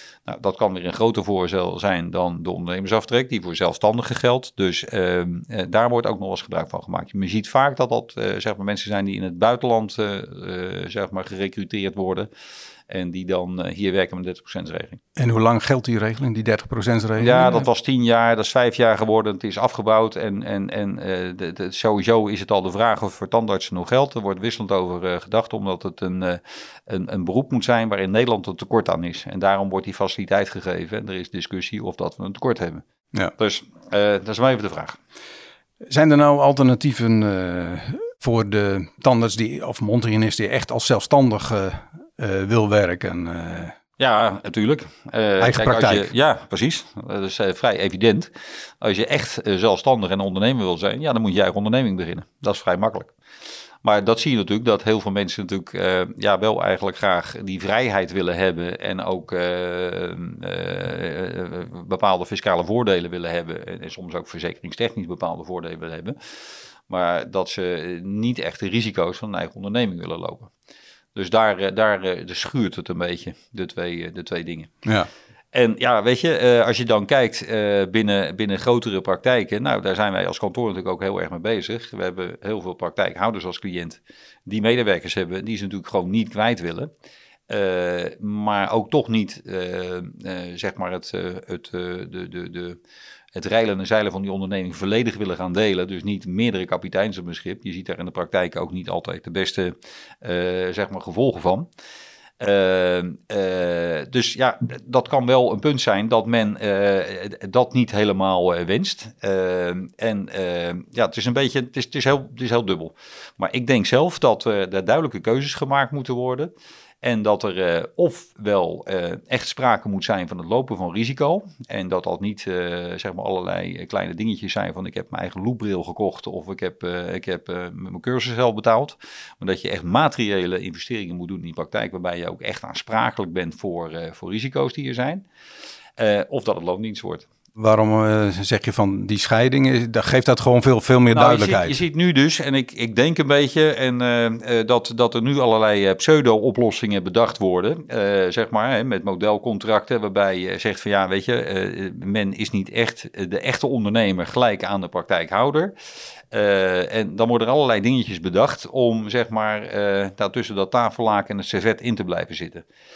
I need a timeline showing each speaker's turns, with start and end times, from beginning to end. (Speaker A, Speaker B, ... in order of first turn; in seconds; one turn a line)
Speaker A: 0.3-12.3
Speaker A: 12.9-15.0
Speaker B: 15.2-17.7
Speaker A: 17.2-35.0
Speaker B: 35.8-43.8
Speaker A: 44.0-48.3
Speaker B: 45.4-46.1
Speaker A: 48.8-53.1
Speaker A: 53.8-66.2
Speaker A: 66.9-70.5
Speaker A: 71.1-74.7
Speaker B: 74.8-75.1
Speaker A: 75.5-86.9
Speaker A: 87.5-92.8
Speaker A: 93.3-101.7
Speaker A: 102.4-135.2
Speaker A: 136.0-137.2
Speaker B: 137.6-141.8
Speaker A: 141.1-155.7
Speaker A: 156.3-162.6